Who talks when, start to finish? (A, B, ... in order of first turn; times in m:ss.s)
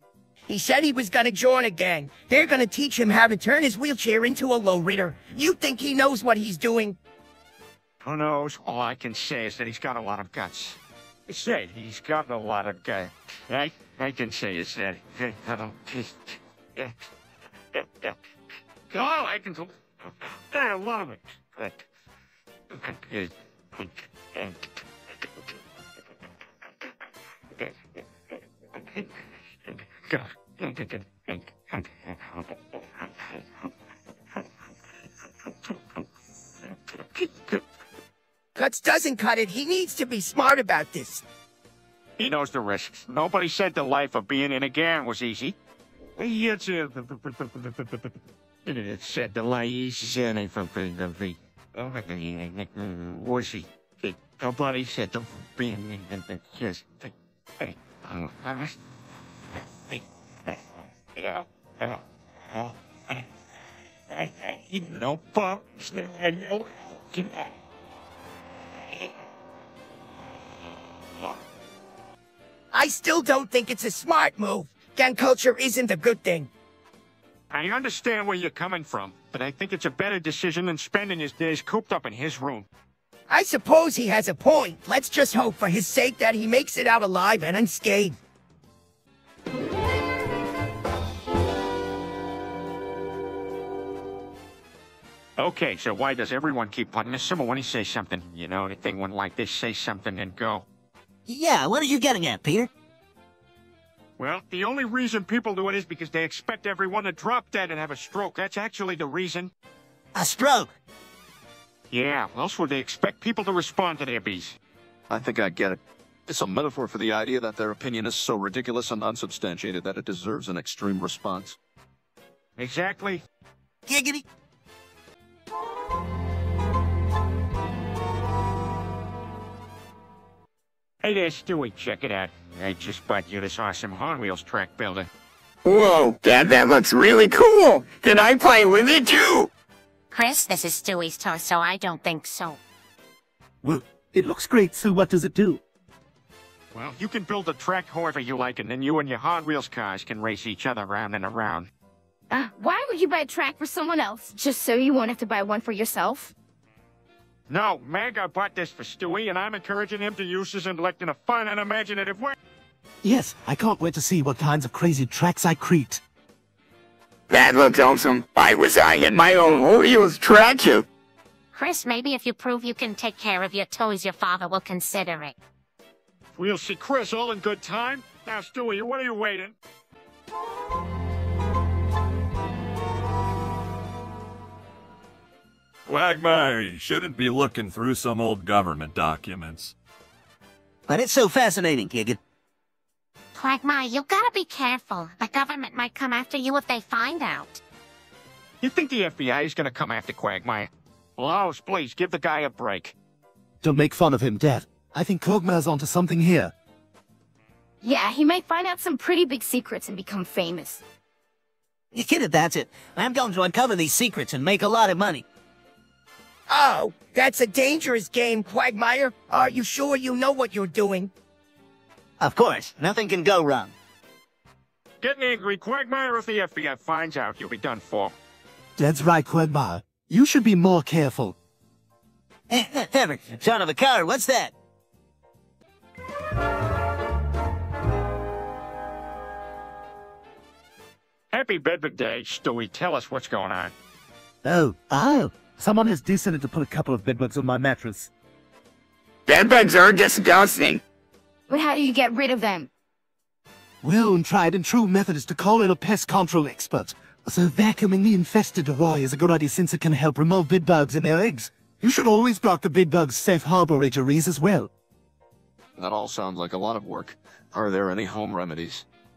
0:00.5-0:07.0 A
0:08.0-0:16.9 B
0:17.8-0:18.1 B
0:18.9-0:19.7 B
0:20.5-0:21.8 B
0:22.7-0:24.6 B
0:30.1-0:32.4 B
0:38.6-0:41.2 A
0:42.2-0:45.6 B
0:46.2-0:58.7 B
1:01.2-1:02.0 B
1:04.2-1:07.5 B
1:12.7-1:16.5 A
1:17.5-1:22.7 B
1:23.3-1:28.2 A
1:35.4-1:40.7 B
1:41.3-1:42.7 C
1:44.2-1:49.5 B
1:50.1-1:50.7 C
1:51.9-1:54.6 B
1:55.1-2:01.6 D
2:02.6-2:03.2 B
2:03.9-2:04.2 C
2:11.0-2:15.1 B
2:15.6-2:19.5 E
2:20.1-2:22.6 F
2:23.6-2:25.6 G
2:26.7-2:31.7 B
2:32.3-2:36.3 H
2:37.5-2:42.4 B
2:43.0-2:46.0 G
2:47.3-2:50.8 E
2:51.5-2:55.3 F
2:56.4-2:59.5 B
3:05.9-3:09.7 I
3:10.9-3:12.2 C
3:13.4-3:17.6 F
3:18.6-3:22.9 B
3:23.6-3:26.5 G
3:27.8-3:30.8 H
3:31.9-3:35.2 C
3:36.5-3:41.1 A
3:42.2-3:43.7 C
3:45.0-3:48.1 B
3:48.8-3:51.4 G
3:52.5-3:54.5 C
4:01.3-4:03.7 B
4:04.4-4:08.1 G
4:09.3-4:10.8 E
4:11.5-4:12.7 H
4:13.8-4:24.7 G
4:25.8-4:28.8 D